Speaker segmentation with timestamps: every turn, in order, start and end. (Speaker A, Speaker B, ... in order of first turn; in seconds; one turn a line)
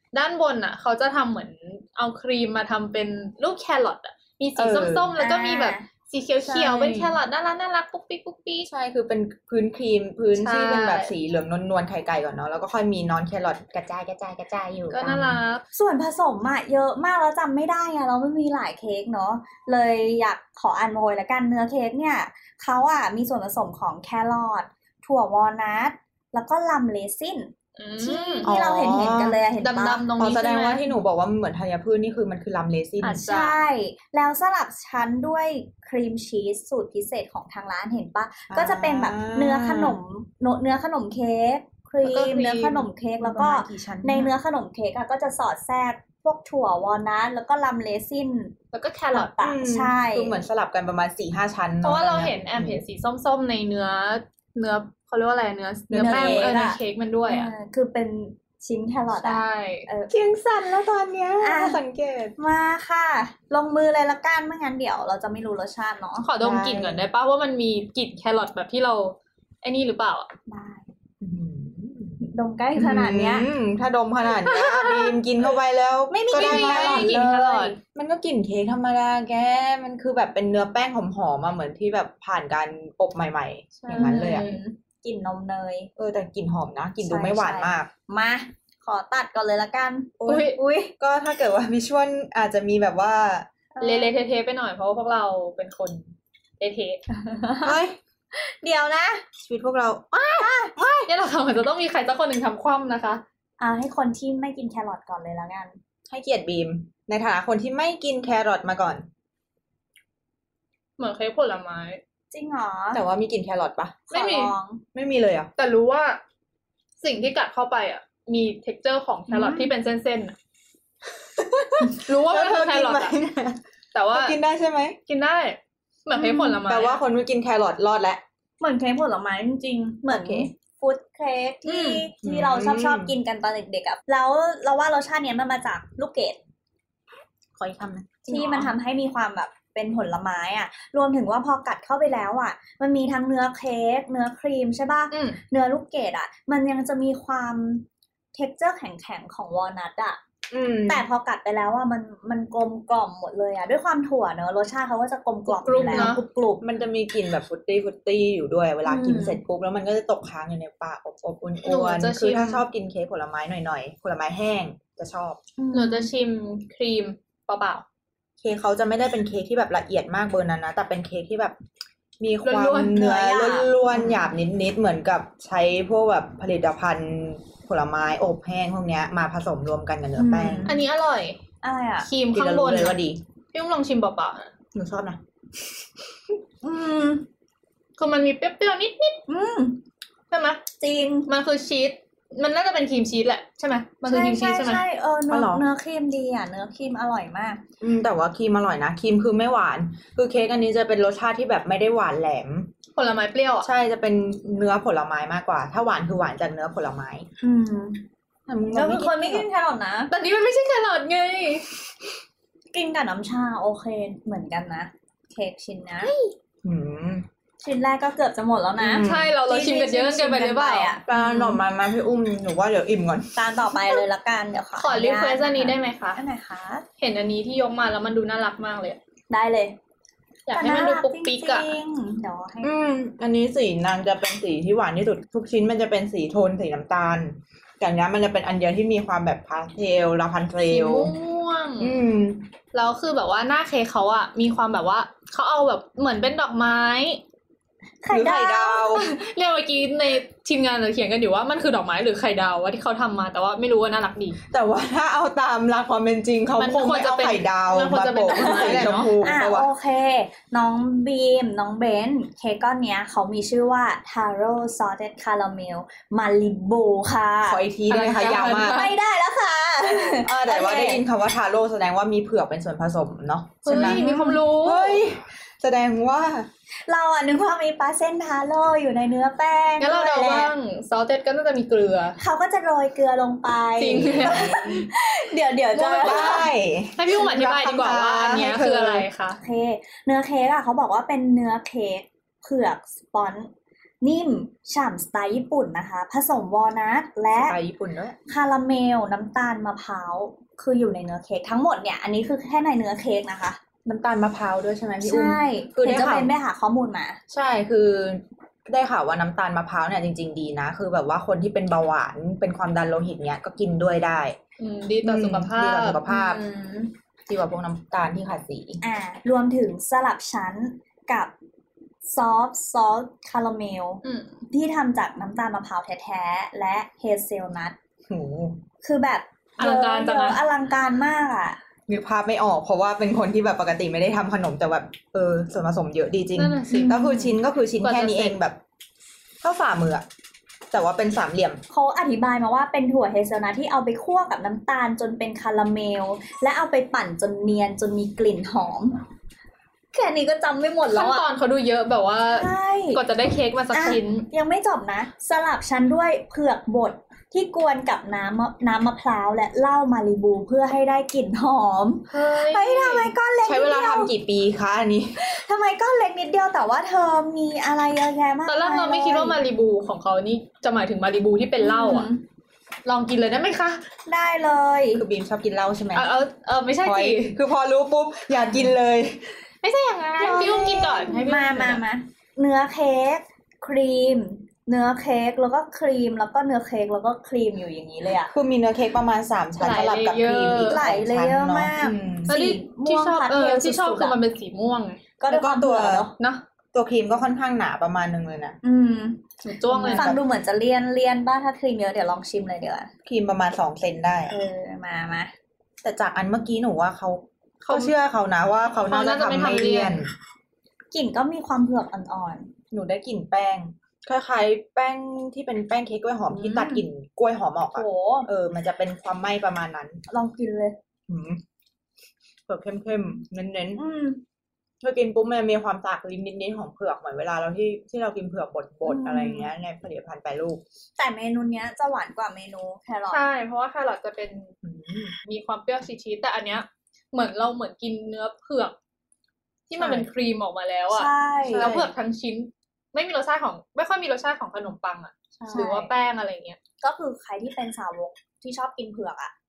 Speaker A: 0.1-8.7
Speaker B: 4.6-5.1
Speaker C: 5.2-5.9
Speaker B: 6.4-7.2
Speaker B: 8.7-15.4
Speaker A: 10.4-11.1
Speaker A: 14.9-15.6
Speaker C: 15.7-30.1
Speaker A: 27.8-28.5
Speaker B: 28.4-29.4
Speaker A: 29.6-30.9
Speaker B: 30.2-33.2
Speaker A: 33.0-33.6
Speaker C: 33.2-48.6
Speaker B: 38.5-40.0
Speaker A: 42.0-42.9
Speaker B: 43.2-44.3
Speaker A: 48.7-49.3
Speaker C: 49.1-50.4
Speaker B: 49.4-52.8
Speaker A: 51.8-57.5
Speaker B: 55.9-56.4
Speaker C: 55.9-60.1
Speaker A: 59.2-59.9
Speaker B: 60.1-62.4
Speaker C: 61.4-61.8
Speaker C: 62.4-66.3
Speaker A: 66.2-70.3
Speaker B: 66.4-67.0
Speaker C: 70.5-70.9
Speaker B: 71.2-72.2
Speaker C: 72.2-73.5
Speaker B: 72.8-77.2
Speaker A: 74.4-75.2
Speaker C: 76.1-77.8
Speaker A: 76.3-77.8
Speaker B: 78.0-84.5
Speaker A: 83.8-84.6
Speaker C: 83.9-85.9
Speaker B: 86.0-87.9
Speaker C: 87.0-90.9
Speaker B: 90.2-93.5
Speaker A: 90.3-90.6
Speaker C: 93.8-94.2
Speaker A: 93.8-97.0
Speaker C: 97.1-97.8
Speaker B: 97.6-98.0
Speaker C: 98.3-99.2
Speaker B: 99.4-100.5
Speaker C: 100.4-101.1
Speaker A: 101.1-103.2
Speaker C: 103.6-105.8
Speaker B: 106.1-109.1
Speaker A: 111.0-112.0
Speaker C: 112.3-113.0
Speaker B: 112.9-114.0
Speaker C: 114.1-114.8
Speaker A: 114.1-114.5
Speaker B: 114.9-115.5
Speaker A: 115.6-116.2
Speaker A: 117.0-120.4
Speaker C: 119.3-119.7
Speaker B: 121.4-123.6
Speaker A: 121.9-123.2
Speaker A: 123.9-124.4
Speaker B: 124.1-125.0
Speaker A: 125.1-127.0
Speaker C: 126.2-126.6
Speaker B: 126.7-128.2
Speaker C: 128.6-136.4
Speaker B: 130.1-130.5
Speaker A: 131.7-132.1
Speaker B: 132.2-133.1
Speaker B: 137.6-138.7
Speaker C: 138.3-150.2
Speaker A: 145.1-145.4
Speaker B: 150.5-151.0
Speaker C: 150.9-156.6
Speaker A: 155.5-156.2
Speaker B: 155.9-165.4
Speaker C: 158.9-159.4
Speaker A: 161.7-162.6
Speaker C: 165.6-166.1
Speaker A: 165.7-167.8
Speaker B: 168.4-171.6
Speaker B: 172.2-180.7
Speaker A: 172.4-173.0
Speaker C: 172.9-174.2
Speaker C: 180.2-180.8
Speaker A: 180.7-181.4
Speaker C: 181.6-182.1
Speaker A: 182.0-183.0
Speaker B: 182.3-183.2
Speaker A: 183.5-184.5
Speaker B: 184.7-185.2
Speaker C: 186.6-187.3
Speaker A: 188.0-189.2
Speaker C: 189.3-189.8
Speaker A: 190.3-190.6
Speaker C: 190.8-191.3
Speaker A: 191.3-194.8
Speaker C: 194.1-197.6
Speaker B: 195.3-195.6
Speaker B: 197.8-202.7
Speaker A: 203.0-203.7
Speaker B: 203.6-207.3
Speaker C: 207.4-208.0
Speaker B: 208.5-209.5
Speaker C: 208.7-210.1
Speaker A: 210.1-211.7
Speaker C: 212.7-216.1
Speaker A: 216.0-216.3
Speaker B: 216.6-217.3
Speaker C: 217.6-221.4
Speaker B: 218.8-219.3
Speaker A: 219.0-221.2
Speaker B: 221.1-223.4
Speaker C: 223.4-226.9
Speaker A: 224.8-226.2
Speaker A: 227.0-229.0
Speaker C: 229.3-229.8
Speaker A: 230.5-231.7
Speaker C: 230.5-232.7
Speaker B: 232.6-241.1
Speaker A: 240.7-242.0
Speaker B: 241.8-242.4
Speaker A: 242.7-247.2
Speaker C: 248.0-248.9
Speaker B: 248.1-249.1
Speaker A: 248.9-254.4
Speaker B: 254.5-259.7
Speaker A: 256.6-259.1
Speaker C: 258.3-267.6
Speaker B: 267.4-268.9
Speaker A: 267.9-268.9
Speaker C: 268.7-271.0
Speaker B: 270.2-276.5
Speaker A: 273.6-275.0
Speaker C: 273.7-274.4
Speaker C: 276.9-280.5
Speaker A: 279.8-282.2
Speaker C: 282.2-286.5
Speaker A: 283.8-284.6
Speaker B: 284.0-284.9
Speaker A: 285.8-289.4
Speaker B: 285.8-289.1
Speaker C: 289.4-293.5
Speaker C: 294.0-297.6
Speaker B: 297.3-298.2
Speaker C: 298.3-303.6
Speaker B: 303.9-306.3
Speaker C: 305.0-307.2
Speaker B: 307.3-314.4
Speaker A: 314.6-316.2
Speaker B: 315.0-316.4
Speaker C: 316.1-316.9
Speaker B: 317.3-318.8
Speaker C: 318.8-321.3
Speaker C: 322.0-327.8
Speaker A: 324.0-324.4
Speaker B: 328.1-328.6
Speaker C: 328.8-331.6
Speaker A: 329.6-330.4
Speaker B: 331.9-338.6
Speaker A: 336.4-336.9
Speaker C: 336.7-337.4
Speaker A: 337.8-338.4
Speaker B: 339.4-340.1
Speaker B: 340.7-341.6
Speaker C: 341.7-349.0
Speaker C: 349.9-351.2
Speaker A: 350.9-354.3
Speaker C: 352.3-353.0
Speaker C: 353.7-364.1
Speaker A: 362.1-363.1
Speaker B: 363.4-365.2
Speaker C: 365.2-369.4
Speaker A: 368.5-372.1
Speaker C: 371.6-372.2
Speaker A: 372.9-373.8
Speaker C: 374.1-375.0
Speaker B: 374.9-376.1
Speaker A: 375.9-377.4
Speaker B: 376.8-379.4
Speaker A: 379.6-381.8
Speaker C: 380.2-388.3
Speaker B: 388.3-392.3
Speaker A: 389.6-390.8
Speaker C: 390.6-394.2
Speaker A: 392.3-395.0
Speaker C: 395.2-396.1
Speaker B: 395.3-396.1
Speaker B: 396.7-398.6
Speaker C: 398.6-399.2
Speaker A: 399.4-400.1
Speaker B: 399.7-400.2
Speaker C: 399.8-402.9
Speaker B: 403.1-404.3
Speaker C: 404.3-405.3
Speaker B: 405.8-410.1
Speaker A: 407.6-407.9
Speaker A: 408.9-410.0
Speaker C: 410.9-412.5
Speaker B: 412.7-420.0
Speaker C: 416.3-416.9
Speaker C: 417.7-418.3
Speaker C: 420.1-420.8
Speaker B: 421.1-421.4
Speaker B: 422.5-423.8
Speaker C: 423.8-424.2
Speaker B: 424.8-430.6
Speaker C: 428.9-429.5
Speaker C: 431.0-433.2
Speaker A: 433.1-434.6
Speaker B: 434.6-435.2
Speaker A: 435.2-438.8
Speaker A: 439.7-446.6
Speaker B: 439.8-440.1
Speaker C: 440.9-441.9
Speaker B: 441.4-441.9
Speaker C: 445.5-445.9
Speaker C: 446.8-449.3